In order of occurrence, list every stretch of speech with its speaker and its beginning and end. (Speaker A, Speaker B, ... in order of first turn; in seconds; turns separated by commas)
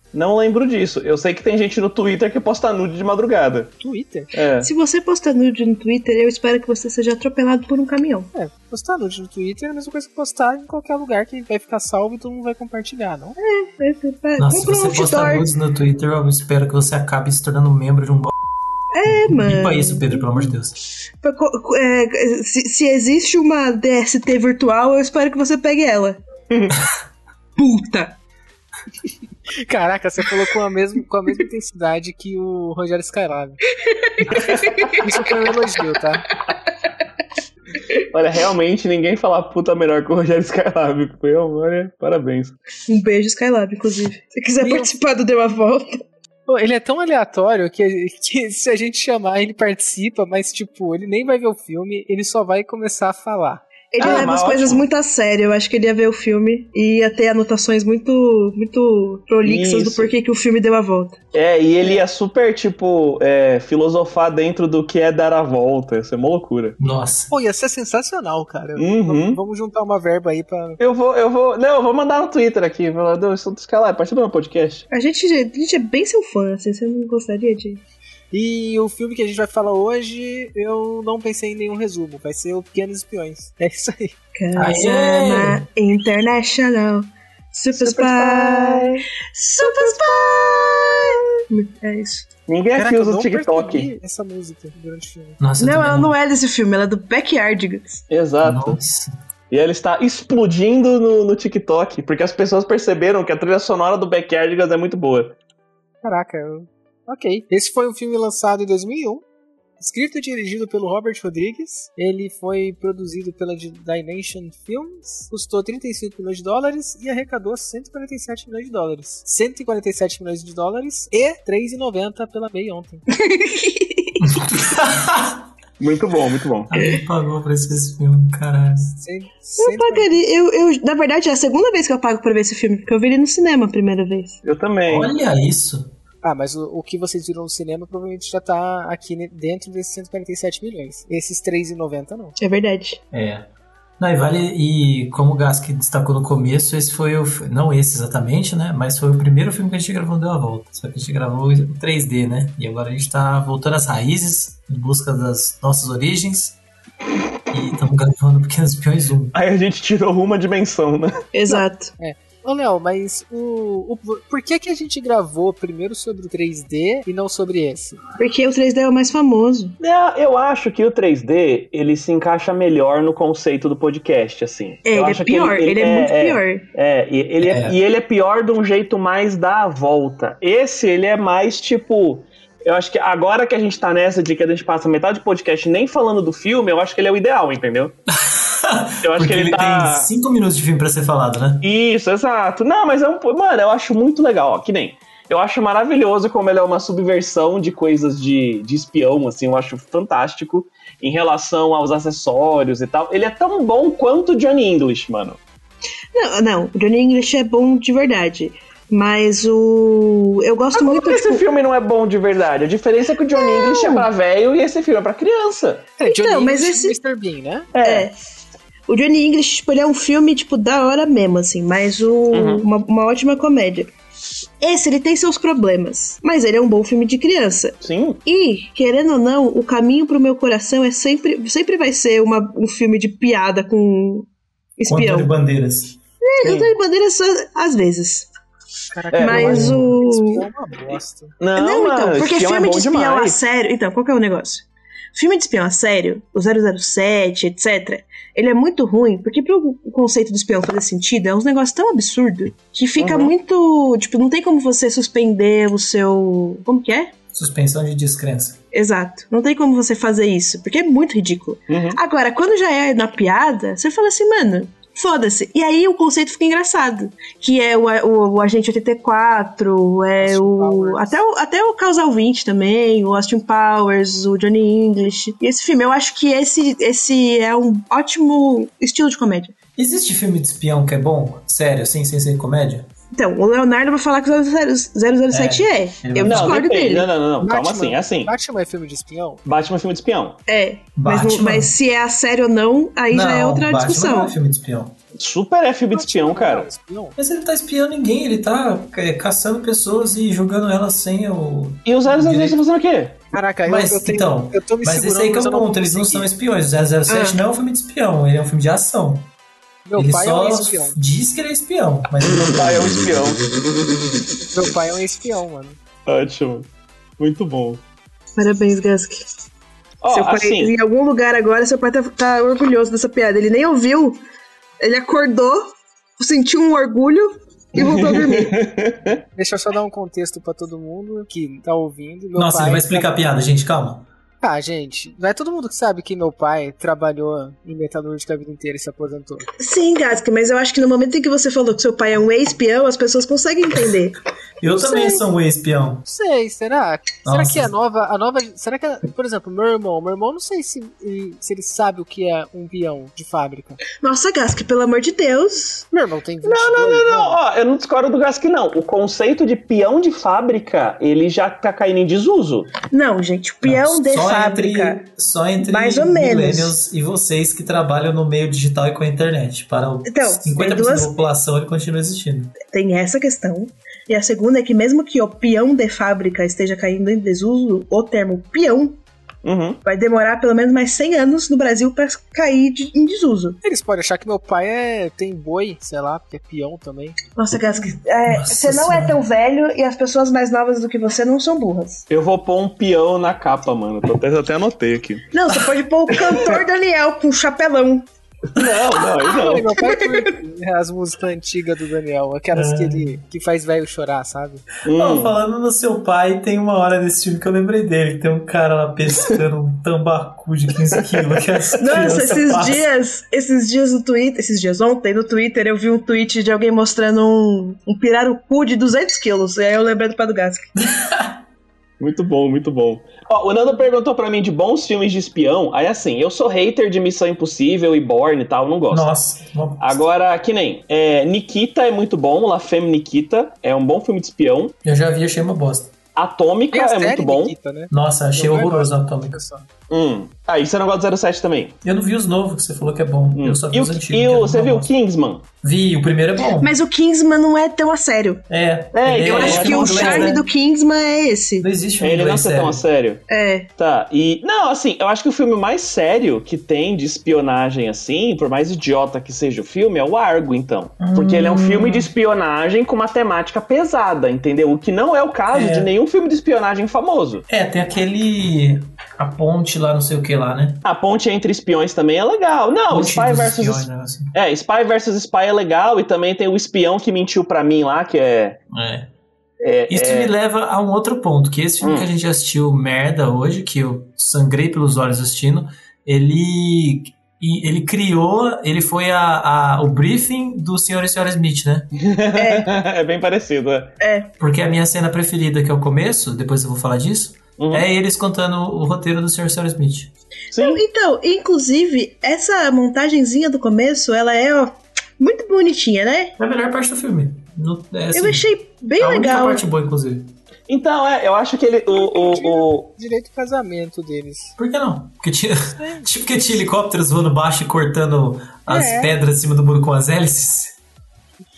Speaker A: 0.1-3.7, Speaker B: 3.8-4.3, Speaker A: 4.3-4.7, Speaker C: 4.6-8.3, Speaker B: 8.3-13.4, Speaker C: 13.4-15.5, Speaker D: 14.4-18.3, Speaker C: 18.9-20.5, Speaker D: 19.1-20.8, Speaker C: 21.2-26.2, Speaker C: 27.6-28.2, Speaker B: 29.6-33.6, Speaker C: 33.9-35.0, Speaker B: 34.3-36.2, Speaker A: 34.3-35.0, Speaker A: 38.1-42.6, Speaker C: 42.9-46.0, Speaker B: 44.6-44.9, Speaker B: 46.5-54.3, Speaker C: 53.9-61.2, Speaker A: 54.0-54.9, Speaker A: 59.4-60.1, Speaker A: 61.3-66.8, Speaker D: 66.8-67.3, Speaker B: 67.3-70.8, Speaker A: 68.8-69.4, Speaker A: 70.8-74.9, Speaker C: 74.9-77.8, Speaker B: 78.3-84.2, Speaker C: 84.3-92.3, Speaker D: 84.5-85.7, Speaker A: 84.8-85.5, Speaker A: 87.7-89.0, Speaker B: 89.6-90.2, Speaker A: 92.5-93.9, Speaker B: 92.8-95.4, Speaker D: 95.4-96.2, Speaker C: 95.6-98.0, Speaker A: 98.1-98.8, Speaker D: 98.4-99.1, Speaker A: 99.5-105.4, Speaker B: 106.0-109.2, Speaker B: 109.8-123.0, Speaker C: 123.1-124.4, Speaker D: 124.2-125.4, Speaker A: 125.8-126.7, Speaker D: 126.7-129.0, Speaker B: 129.0-130.2, Speaker C: 129.6-134.4, Speaker A: 134.4-135.1, Speaker D: 134.9-135.9, Speaker B: 136.2-142.4, Speaker C: 142.4-143.0, Speaker D: 143.1-143.5, Speaker D: 144.0-156.6, Speaker D: 157.5-159.3, Speaker A: 159.3-161.2, Speaker C: 161.3-161.9, Speaker B: 161.5-168.0, Speaker C: 168.2-169.8, Speaker A: 169.8-187.9, Speaker C: 174.9-176.6, Speaker D: 177.4-177.8, Speaker D: 188.2-191.6, Speaker A: 189.0-190.1, Speaker A: 191.6-205.4, Speaker C: 206.2-211.4, Speaker A: 210.7-215.9, Speaker C: 213.4-214.1, Speaker C: 216.0-217.0, Speaker B: 216.0-217.7, Speaker A: 217.7-218.1, Speaker C: 217.8-218.1, Speaker C: 218.9-223.9, Speaker A: 222.3-222.7, Speaker C: 224.6-235.3, Speaker A: 227.8-228.2, Speaker D: 234.9-236.0, Speaker C: 236.2-238.3, Speaker A: 236.4-236.7, Speaker B: 238.9-241.4, Speaker A: 239.1-239.6, Speaker C: 239.2-240.4, Speaker D: 239.5-239.9, Speaker A: 241.4-243.4, Speaker C: 241.6-257.1, Speaker A: 253.0-253.3, Speaker D: 257.3-258.6, Speaker C: 258.7-279.5, Speaker A: 261.7-262.0, Speaker B: 270.2-271.2, Speaker D: 279.8-282.9, Speaker C: 283.1-287.1, Speaker D: 285.3-286.6, Speaker A: 286.2-288.3, Speaker B: 287.4-289.4, Speaker A: 289.4-290.4, Speaker C: 290.5-294.3, Speaker D: 291.0-291.7, Speaker D: 293.1-295.0, Speaker A: 295.2-296.7, Speaker B: 295.9-297.2, Speaker D: 297.2-302.6, Speaker A: 301.9-303.2, Speaker B: 303.3-306.3, Speaker D: 303.7-309.3, Speaker C: 307.1-307.4, Speaker B: 309.9-311.0, Speaker D: 310.0-312.9, Speaker A: 312.2-313.4, Speaker B: 314.5-315.8, Speaker A: 316.1-316.7, Speaker A: 317.2-317.8, Speaker C: 318.4-319.2, Speaker A: 320.0-320.7, Speaker C: 320.1-324.2, Speaker C: 324.8-328.6, Speaker A: 327.8-329.2, Speaker B: 329.4-333.1, Speaker D: 332.4-334.1, Speaker B: 334.4-339.5, Speaker C: 339.6-345.2, Speaker D: 344.6-346.1, Speaker B: 346.1-353.8, Speaker D: 347.2-347.7, Speaker C: 353.9-355.9, Speaker B: 355.9-357.4, Speaker A: 356.4-362.7, Speaker C: 362.9-365.0, Speaker D: 363.6-372.6, Speaker C: 365.6-366.8, Speaker C: 370.1-371.1, Speaker C: 372.6-379.0, Speaker A: 379.4-379.8, Speaker C: 379.8-383.6, Speaker B: 383.6-387.2, Speaker C: 387.4-392.1, Speaker D: 388.2-389.2, Speaker A: 392.1-395.3, Speaker C: 395.3-398.1, Speaker A: 396.1-396.6, Speaker A: 398.5-399.8, Speaker B: 399.3-404.6, Speaker D: 402.5-403.1, Speaker A: 404.9-405.3, Speaker D: 404.9-412.8, Speaker A: 410.9-412.7, Speaker C: 411.8-420.7, Speaker D: 420.9-421.3, Speaker A: 422.0-429.1, Speaker D: 428.9-430.0, Speaker A: 429.8-434.8, Speaker D: 434.9-435.9, Speaker A: 436.2-437.6, Speaker B: 436.7-439.7, Speaker D: 437.9-439.4, Speaker A: 439.9-441.8, Speaker D: 441.8-444.9, Speaker A: 443.3-445.5, Speaker D: 445.6-446.7, Speaker C: 446.6-448.4, Speaker D: 448.5-450.4, Speaker A: 448.9-450.4, Speaker C: 449.3-451.7, Speaker D: 451.6-452.8, Speaker A: 452.0-453.2, Speaker C: 453.3-453.7, Speaker A: 453.8-467.4, Speaker D: 461.0-462.1, Speaker D: 465.5-465.9, Speaker D: 467.5-470.8, Speaker A: 470.9-478.6, Speaker D: 472.9-474.3, Speaker D: 478.7-479.1, Speaker A: 479.6-480.3, Speaker D: 479.9-491.9, Speaker A: 481.8-482.1, Speaker A: 491.9-493.9, Speaker C: 492.4-492.7, Speaker C: 494.0-494.3, Speaker D: 494.4-500.1, Speaker A: 497.6-497.9, Speaker A: 500.5-500.8, Speaker C: 500.6-506.4, Speaker D: 506.4-510.3, Speaker C: 508.1-509.6, Speaker A: 510.7-512.9, Speaker B: 512.0-514.6, Speaker D: 514.6-520.8, Speaker B: 515.7-516.2, Speaker B: 518.7-519.2